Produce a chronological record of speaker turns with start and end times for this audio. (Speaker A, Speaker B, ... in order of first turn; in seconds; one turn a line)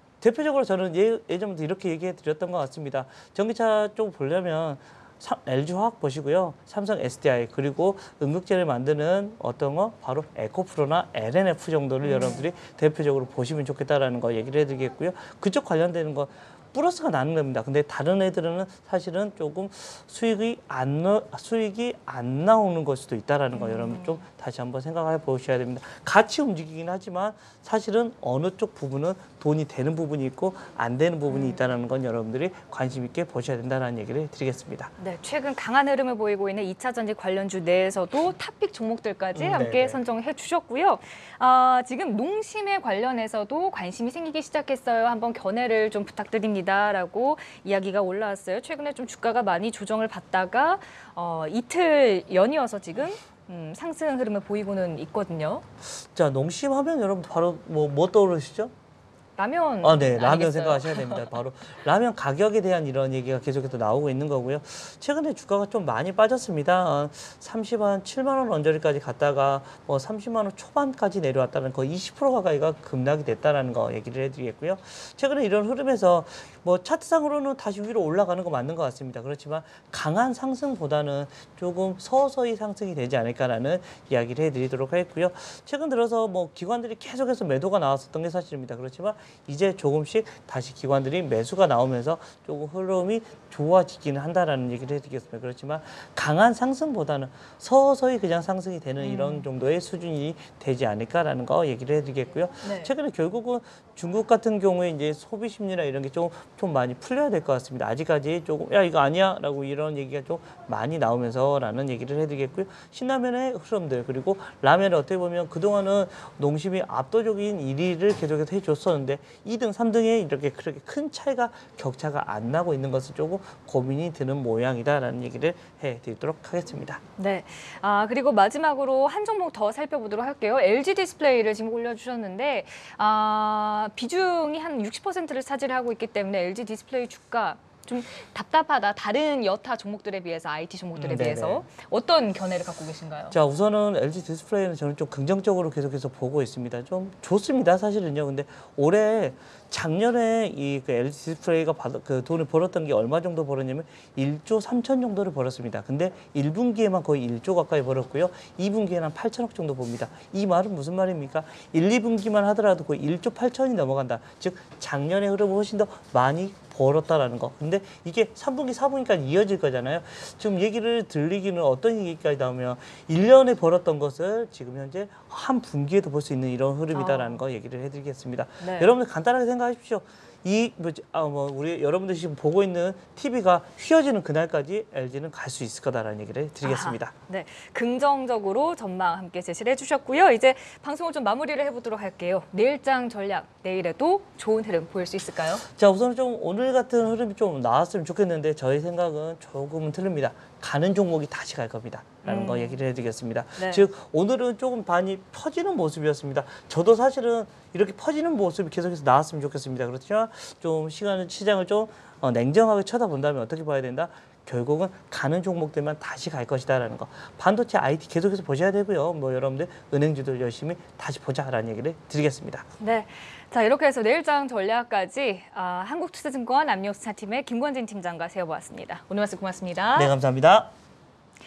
Speaker A: 0.2-34.9
Speaker B: 12.0-12.4
Speaker B: 23.5-24.2
Speaker B: 31.3-31.7
Speaker B: 35.0-55.6
Speaker A: 39.4-40.0
Speaker A: 55.9-58.7
Speaker B: 59.4-61.3
Speaker A: 59.8-127.0
Speaker B: 99.0-99.5
Speaker B: 102.6-102.9
Speaker B: 127.2-143.4
Speaker A: 140.9-141.6
Speaker A: 143.3-187.1
Speaker B: 176.9-177.4
Speaker B: 178.6-178.9
Speaker B: 186.6-195.7
Speaker A: 195.7-222.6
Speaker B: 202.2-202.8
Speaker B: 203.6-203.9
Speaker B: 222.8-230.1
Speaker A: 229.9-230.7